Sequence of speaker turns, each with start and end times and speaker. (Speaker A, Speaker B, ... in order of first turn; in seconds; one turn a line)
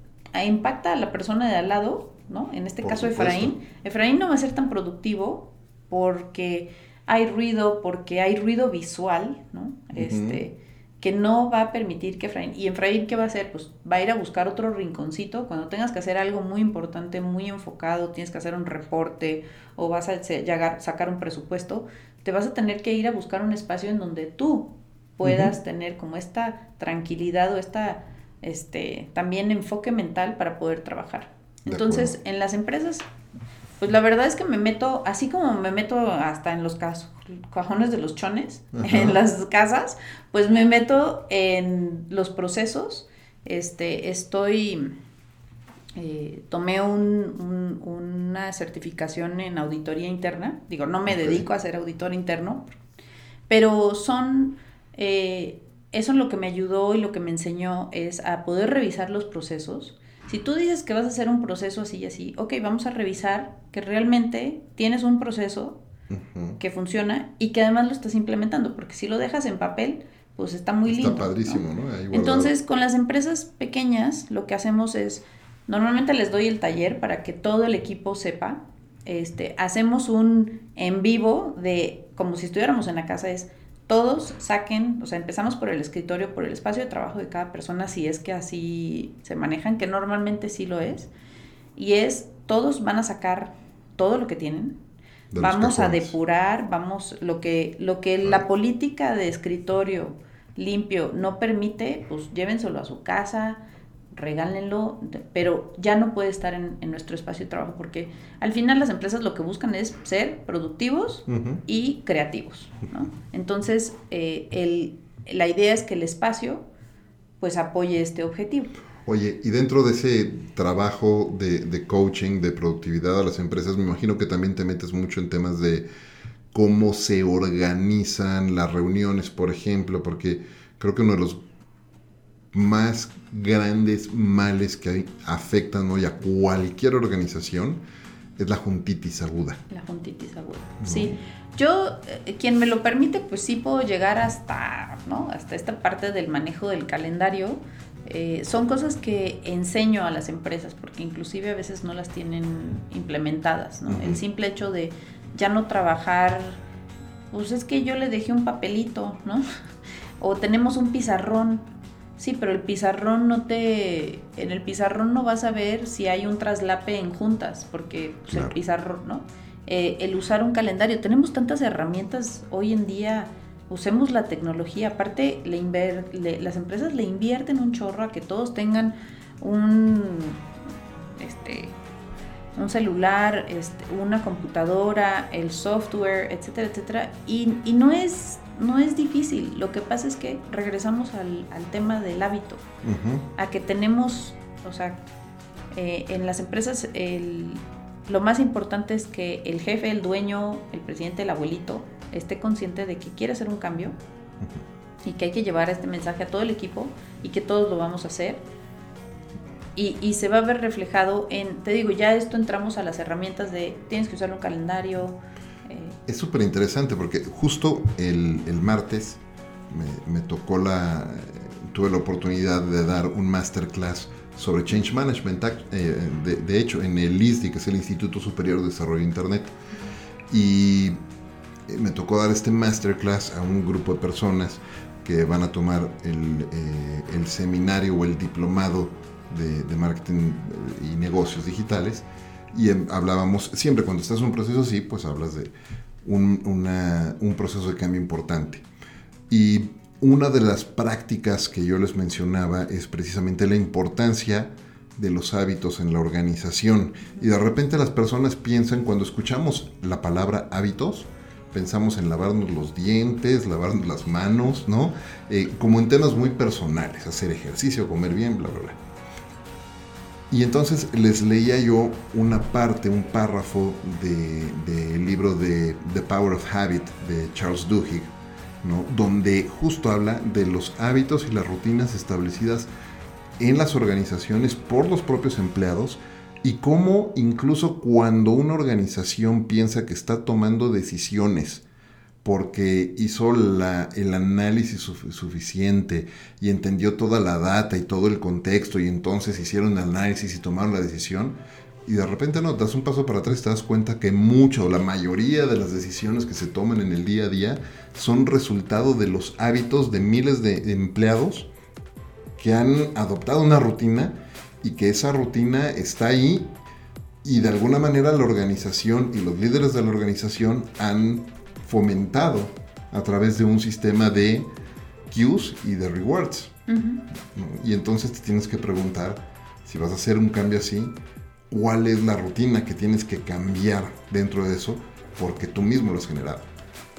Speaker A: 0.3-33.0
Speaker B: 2.8-3.5
Speaker B: 9.9-10.4
Speaker B: 25.2-25.5
Speaker B: 31.6-32.1
Speaker A: 33.8-44.9
Speaker B: 38.8-39.2
Speaker A: 46.0-52.8
Speaker B: 51.1-51.4
Speaker A: 53.5-65.8
Speaker B: 66.1-66.6
Speaker A: 66.6-91.1
Speaker B: 70.9-72.5
Speaker A: 91.8-94.8
Speaker B: 95.3-96.2
Speaker A: 95.4-103.6
Speaker A: 104.1-116.6
Speaker B: 111.3-111.6
Speaker A: 117.4-118.7
Speaker B: 119.0-125.8
Speaker B: 126.5-131.4
Speaker B: 132.5-137.8
Speaker B: 138.4-139.6
Speaker A: 139.7-156.6
Speaker B: 140.8-141.2
Speaker B: 153.9-154.2
Speaker A: 157.3-159.4
Speaker A: 160.2-161.7
Speaker A: 162.2-180.4
Speaker B: 168.3-168.6
Speaker A: 181.2-181.8
Speaker A: 182.6-192.7
Speaker B: 192.8-193.3
Speaker A: 193.4-195.1
Speaker A: 195.7-204.0
Speaker A: 205.1-208.4
Speaker A: 209.8-216.0
Speaker B: 216.1-229.5
Speaker B: 230.3-231.0
Speaker B: 231.7-245.5
Speaker B: 246.0-248.7
Speaker B: 249.3-268.8
Speaker B: 270.3-278.1
Speaker B: 278.6-282.7
Speaker B: 283.4-291.6
Speaker B: 292.2-311.5
Speaker B: 312.4-316.5
Speaker B: 317.2-324.5
Speaker B: 325.1-326.5
Speaker A: 326.7-327.0
Speaker B: 327.2-330.9
Speaker B: 331.5-336.5